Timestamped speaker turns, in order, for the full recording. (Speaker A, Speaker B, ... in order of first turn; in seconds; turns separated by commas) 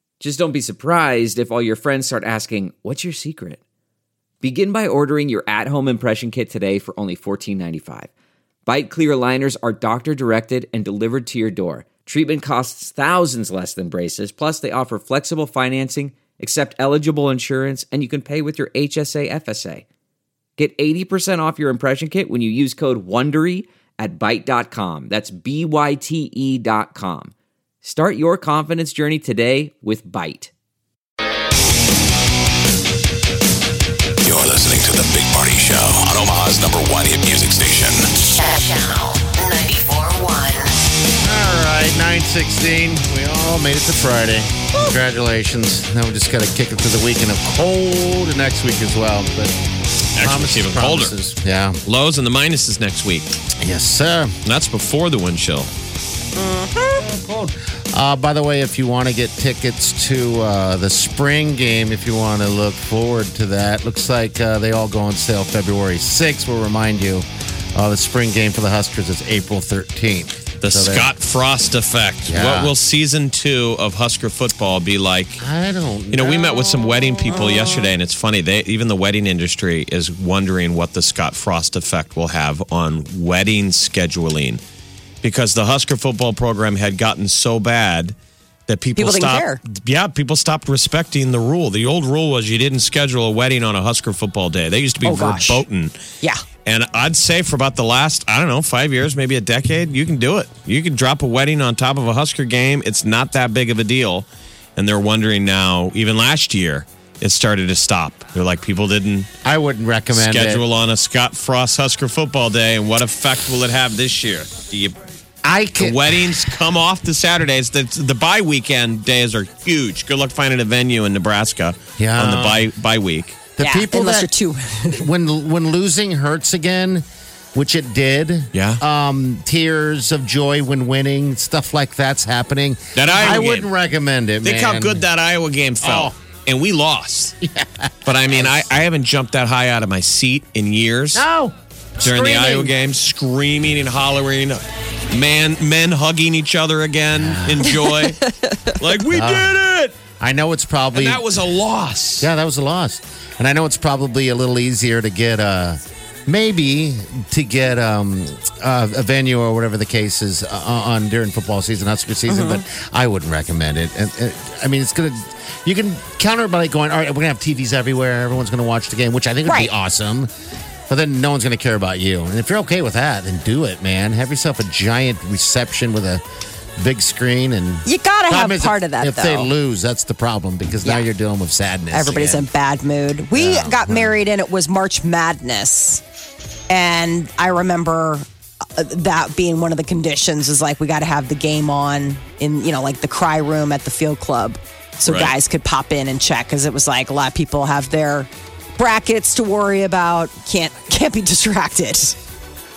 Speaker A: 0.2-3.6, Speaker A: 4.4-8.1, Speaker A: 8.7-19.8, Speaker A: 20.6-30.5, Speaker B: 34.2-38.0, Speaker C: 38.2-40.7, Speaker D: 41.2-49.5, Speaker E: 50.1-51.1, Speaker D: 50.2-51.8, Speaker E: 51.8-53.3, Speaker D: 53.6-54.3, Speaker E: 54.4-55.7, Speaker F: 56.4-57.0, Speaker D: 56.9-71.1, Speaker E: 70.6-75.4, Speaker D: 72.3-72.7, Speaker D: 75.4-77.6, Speaker E: 76.1-84.6, Speaker F: 77.4-77.7, Speaker E: 85.2-88.1, Speaker E: 88.7-96.0, Speaker F: 89.0-89.6, Speaker F: 95.0-95.6, Speaker E: 96.6-109.3, Speaker D: 109.4-110.6, Speaker E: 110.1-115.0, Speaker D: 115.4-116.5, Speaker E: 115.8-123.4, Speaker D: 122.0-122.7, Speaker D: 123.6-124.3, Speaker F: 123.6-125.1, Speaker D: 124.8-135.0, Speaker E: 128.5-128.8, Speaker E: 132.9-133.7, Speaker E: 134.4-137.3, Speaker D: 135.8-136.1, Speaker D: 137.4-138.6, Speaker E: 138.1-141.2, Speaker D: 141.1-142.7, Speaker E: 142.0-150.0, Speaker D: 147.1-147.7, Speaker D: 149.1-149.6, Speaker D: 150.1-151.2, Speaker E: 150.9-152.3, Speaker D: 152.2-170.3, Speaker F: 162.3-162.6, Speaker F: 169.4-169.7, Speaker D: 170.9-176.2, Speaker D: 176.8-182.4, Speaker F: 177.8-179.5, Speaker F: 181.9-186.0, Speaker D: 183.3-184.1, Speaker F: 186.7-188.2, Speaker F: 188.8-202.1, Speaker E: 195.0-195.3